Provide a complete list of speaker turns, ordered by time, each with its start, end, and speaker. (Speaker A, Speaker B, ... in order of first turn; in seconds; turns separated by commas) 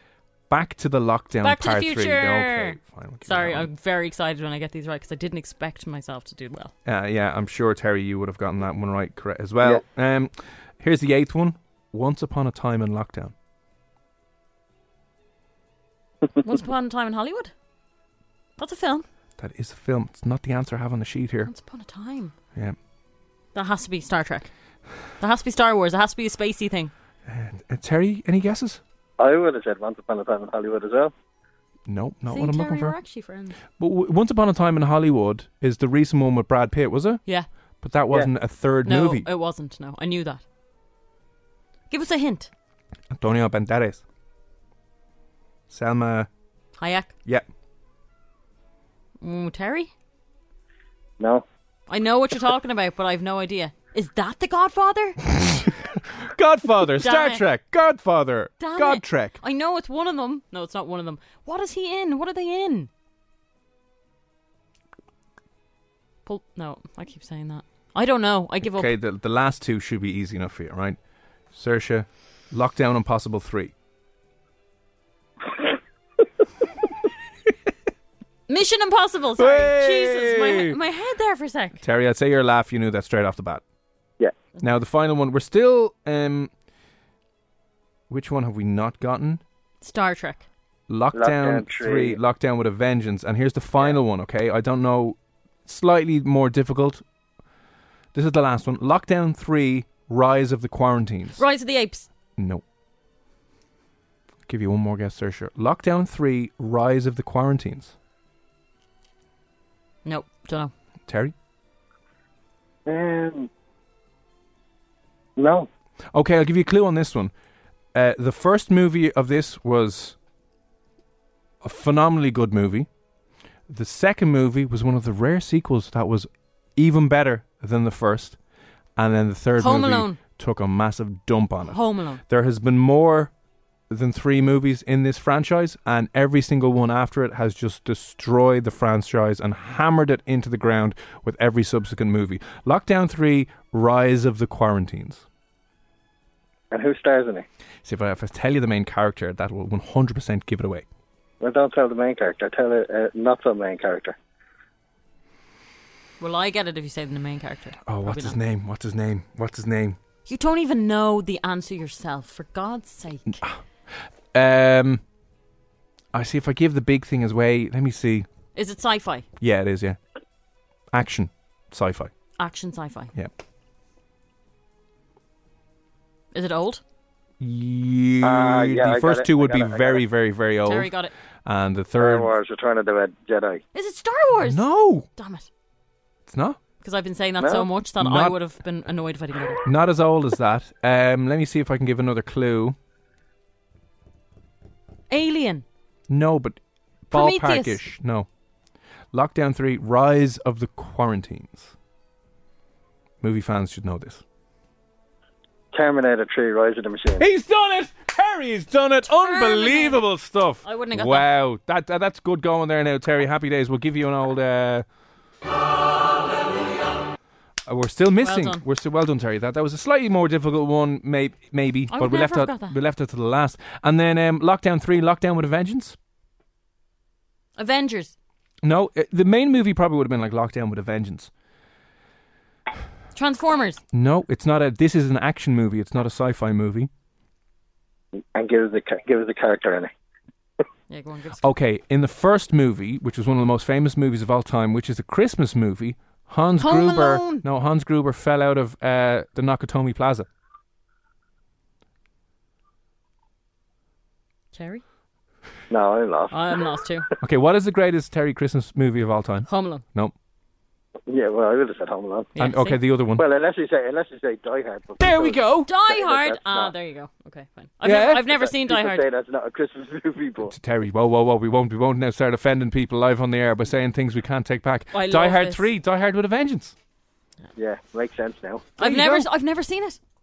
Speaker A: 0.5-3.7, Speaker B: 1.4-6.7, Speaker A: 6.8-13.3, Speaker B: 16.4-17.5, Speaker B: 18.6-19.1, Speaker A: 19.4-21.5, Speaker B: 21.4-22.3, Speaker B: 23.5-24.5, Speaker B: 25.2-26.9, Speaker A: 27.3-28.8, Speaker C: 29.2-31.1, Speaker A: 31.9-33.0, Speaker B: 32.3-33.6, Speaker A: 33.8-37.2, Speaker A: 37.8-39.3, Speaker B: 38.9-40.4, Speaker B: 41.9-42.5, Speaker A: 43.1-44.0, Speaker A: 45.7-46.3, Speaker B: 46.8-47.1, Speaker B: 49.2-49.9, Speaker C: 51.2-51.5, Speaker B: 51.9-55.2, Speaker A: 55.3-59.4, Speaker B: 57.0-57.4, Speaker B: 58.6-62.9, Speaker B: 66.3-68.9, Speaker A: 68.6-71.0, Speaker A: 71.5-73.7, Speaker B: 78.5-81.8, Speaker A: 79.4-80.8, Speaker A: 81.8-83.6, Speaker A: 84.6-86.5, Speaker A: 88.1-89.4, Speaker B: 89.8-90.5, Speaker A: 90.9-97.0, Speaker C: 91.1-92.2, Speaker A: 98.1-101.4, Speaker B: 101.4-102.1, Speaker A: 102.4-102.6, Speaker A: 104.5-107.9, Speaker B: 110.0-110.7, Speaker A: 111.1-111.3, Speaker C: 112.9-113.5, Speaker C: 115.4-115.7, Speaker A: 116.1-117.3, Speaker A: 117.9-120.2, Speaker A: 121.6-122.9, Speaker A: 123.7-128.4, Speaker A: 129.0-133.3, Speaker B: 129.6-130.2, Speaker B: 131.7-132.2, Speaker A: 133.9-145.2, Speaker C: 146.7-147.5, Speaker A: 147.8-150.8, Speaker C: 151.4-154.2, Speaker B: 156.2-158.4, Speaker A: 157.9-160.0, Speaker B: 160.3-163.4, Speaker A: 164.3-165.0, Speaker A: 166.1-168.3, Speaker B: 168.6-169.3, Speaker A: 169.4-170.0, Speaker A: 170.9-172.1, Speaker B: 172.4-173.1, Speaker B: 176.3-176.8, Speaker A: 177.4-180.9, Speaker C: 178.2-180.0, Speaker B: 180.7-181.1, Speaker A: 181.5-182.3, Speaker C: 182.0-183.6, Speaker B: 183.7-184.6, Speaker A: 184.4-185.1, Speaker B: 185.2-185.5, Speaker A: 186.3-186.6, Speaker B: 186.8-189.6, Speaker C: 187.4-187.7, Speaker A: 188.0-188.4, Speaker A: 189.6-192.8, Speaker B: 195.1-195.7, Speaker A: 196.1-196.6, Speaker A: 197.1-198.3, Speaker B: 197.1-197.8, Speaker A: 199.1-201.7, Speaker A: 203.2-204.2, Speaker C: 205.7-207.2, Speaker A: 207.2-214.8, Speaker B: 209.2-210.0, Speaker B: 210.6-211.3, Speaker A: 217.7-226.0, Speaker B: 218.2-218.6, Speaker B: 221.9-222.8, Speaker B: 227.6-228.1, Speaker A: 228.6-231.3, Speaker B: 233.1-233.8, Speaker A: 233.9-236.9, Speaker C: 238.3-239.9, Speaker B: 240.9-241.5, Speaker A: 241.4-250.3, Speaker B: 246.6-247.4, Speaker B: 254.5-254.8, Speaker C: 255.7-256.6, Speaker B: 256.3-257.1, Speaker A: 257.2-260.1, Speaker B: 259.5-259.8, Speaker C: 261.1-262.3, Speaker B: 262.4-262.8, Speaker A: 262.4-263.2, Speaker C: 263.2-266.7, Speaker A: 265.0-265.7, Speaker B: 265.6-269.1, Speaker A: 267.8-268.3, Speaker C: 268.3-270.5, Speaker A: 270.5-276.7, Speaker B: 274.9-275.7, Speaker C: 277.6-278.7, Speaker B: 278.8-280.0, Speaker A: 278.8-279.3